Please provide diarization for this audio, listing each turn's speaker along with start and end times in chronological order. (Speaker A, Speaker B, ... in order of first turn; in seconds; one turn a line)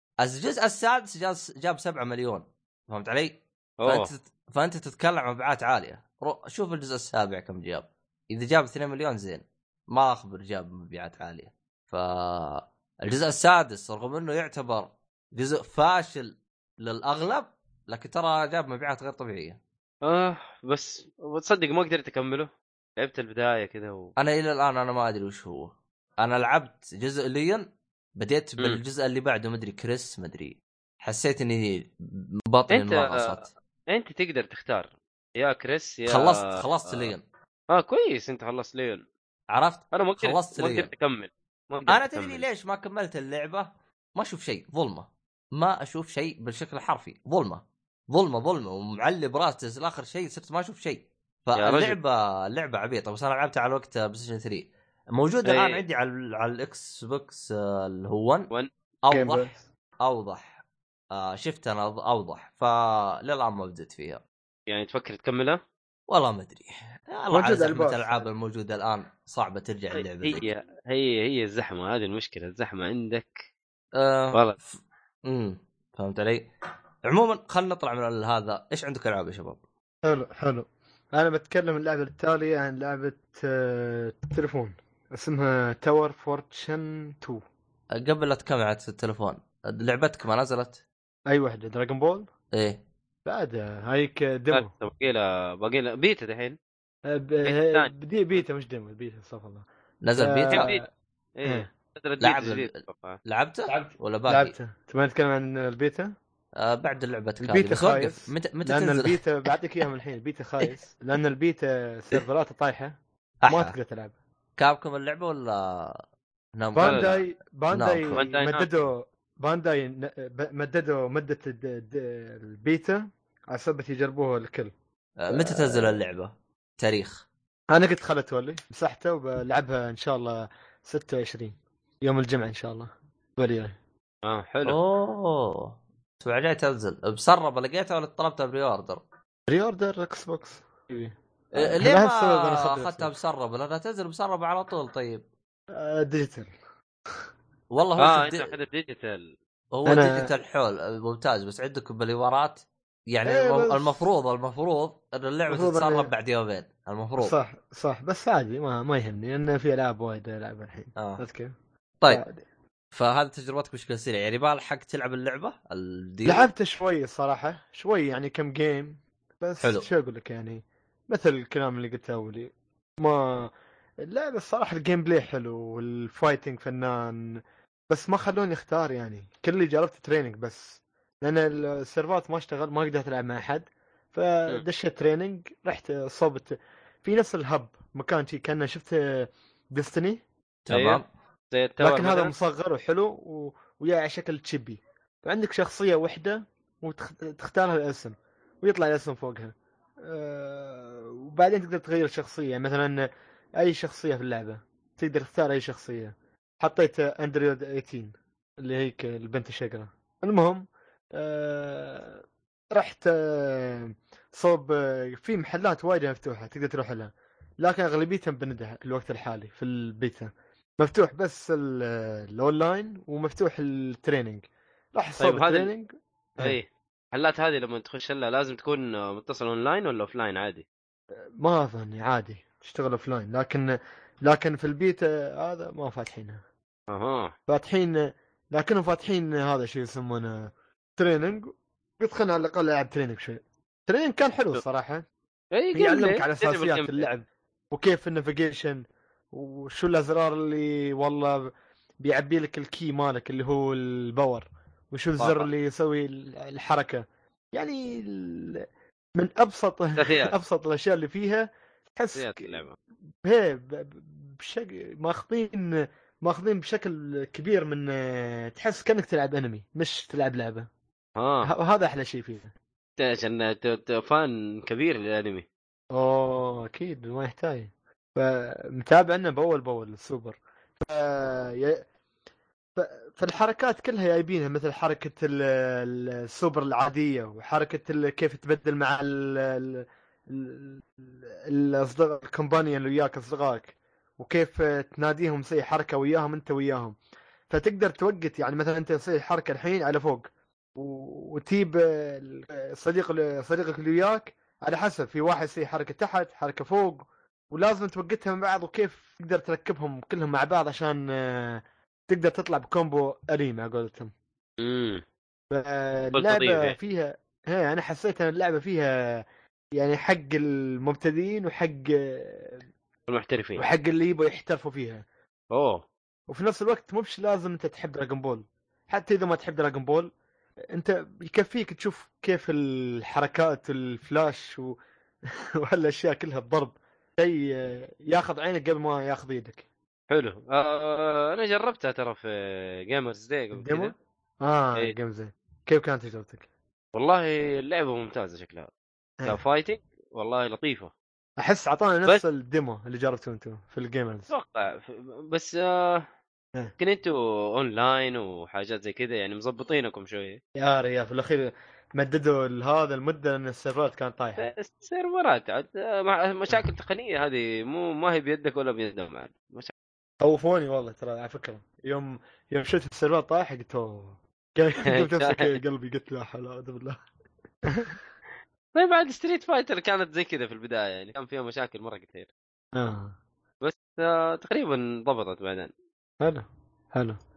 Speaker A: 0.2-19.6
Speaker B: 3.8-4.1
Speaker B: 20.0-24.1
Speaker A: 24.2-33.5
Speaker B: 32.7-37.1
Speaker A: 36.1-37.2
Speaker B: 37.7-39.0
Speaker A: 39.5-40.9
Speaker B: 39.9-42.5
Speaker A: 41.9-58.5
Speaker B: 51.6-52.0
Speaker B: 55.4-55.8
Speaker A: 59.0-59.5
Speaker C: 59.1-59.6
Speaker A: 60.0-60.5
Speaker A: 61.1-64.2
Speaker B: 64.7-65.6
Speaker A: 66.1-70.5
Speaker C: 67.3-68.3
Speaker B: 69.9-73.5
Speaker A: 73.9-76.5
Speaker A: 77.1-79.6
Speaker C: 80.0-87.4
Speaker A: 87.9-90.8
Speaker C: 91.3-92.3
Speaker A: 92.5-92.8
Speaker C: 93.2-94.7
Speaker B: 94.5-96.6
Speaker C: 97.0-100.8
Speaker B: 97.4-97.9
Speaker A: 100.0-100.7
Speaker B: 100.5-100.8
Speaker B: 101.3-103.2
Speaker A: 102.2-104.5
Speaker C: 103.7-106.1
Speaker A: 106.5-109.2
Speaker C: 107.4-114.2
Speaker A: 113.4-113.7
Speaker A: 114.6-116.0
Speaker A: 116.5-118.2
Speaker C: 116.7-124.7
Speaker B: 116.8-117.1
Speaker B: 118.1-118.9
Speaker A: 125.2-127.2
Speaker C: 125.3-126.0
Speaker C: 127.7-133.8
Speaker B: 134.2-134.8
Speaker A: 134.7-139.0
Speaker C: 139.5-143.1
Speaker A: 141.5-145.2
Speaker C: 145.7-146.5
Speaker A: 147.7-148.5
Speaker B: 148.0-149.3
Speaker A: 149.7-157.3
Speaker C: 149.8-150.3
Speaker C: 153.2-154.1
Speaker C: 155.5-156.1
Speaker C: 157.2-161.5
Speaker A: 160.9-161.2
Speaker C: 162.1-162.4
Speaker A: 162.9-166.5
Speaker C: 166.2-173.5
Speaker A: 169.6-169.9
Speaker C: 174.0-177.4
Speaker C: 177.9-190.2
Speaker A: 190.7-191.0
Speaker B: 190.7-192.3
Speaker C: 191.8-203.1
Speaker C: 203.6-210.6
Speaker C: 211.2-226.6
Speaker B: 225.2-225.7
Speaker B: 226.4-230.6
Speaker C: 231.4-236.4
Speaker B: 236.9-237.3
Speaker C: 237.5-245.0
Speaker B: 245.5-247.1
Speaker C: 245.7-251.5
Speaker C: 252.0-262.6
Speaker B: 255.2-255.5
Speaker B: 260.0-260.3
Speaker B: 262.1-262.8
Speaker C: 263.2-270.7
Speaker B: 271.1-271.5
Speaker C: 271.4-272.5
Speaker B: 273.0-275.4
Speaker C: 275.9-281.8
Speaker C: 282.8-296.9
Speaker C: 297.5-314.1
Speaker B: 314.6-315.0
Speaker C: 315.5-319.2
Speaker B: 316.1-316.8
Speaker C: 319.8-322.6
Speaker B: 323.1-323.6
Speaker C: 323.6-325.0
Speaker B: 325.5-325.8
Speaker C: 326.3-330.1
Speaker C: 330.7-334.8
Speaker C: 335.6-339.6
Speaker B: 340.1-343.9
Speaker C: 343.5-346.5
Speaker B: 346.9-348.7
Speaker B: 349.2-350.9
Speaker C: 351.4-354.3
Speaker B: 354.3-356.1
Speaker B: 356.8-360.4
Speaker C: 360.6-364.5
Speaker B: 364.4-369.7
Speaker C: 370.2-377.0
Speaker B: 374.9-375.6
Speaker C: 377.7-378.0
Speaker B: 378.7-382.3
Speaker C: 382.7-383.1
Speaker B: 383.6-385.7
Speaker C: 386.2-387.2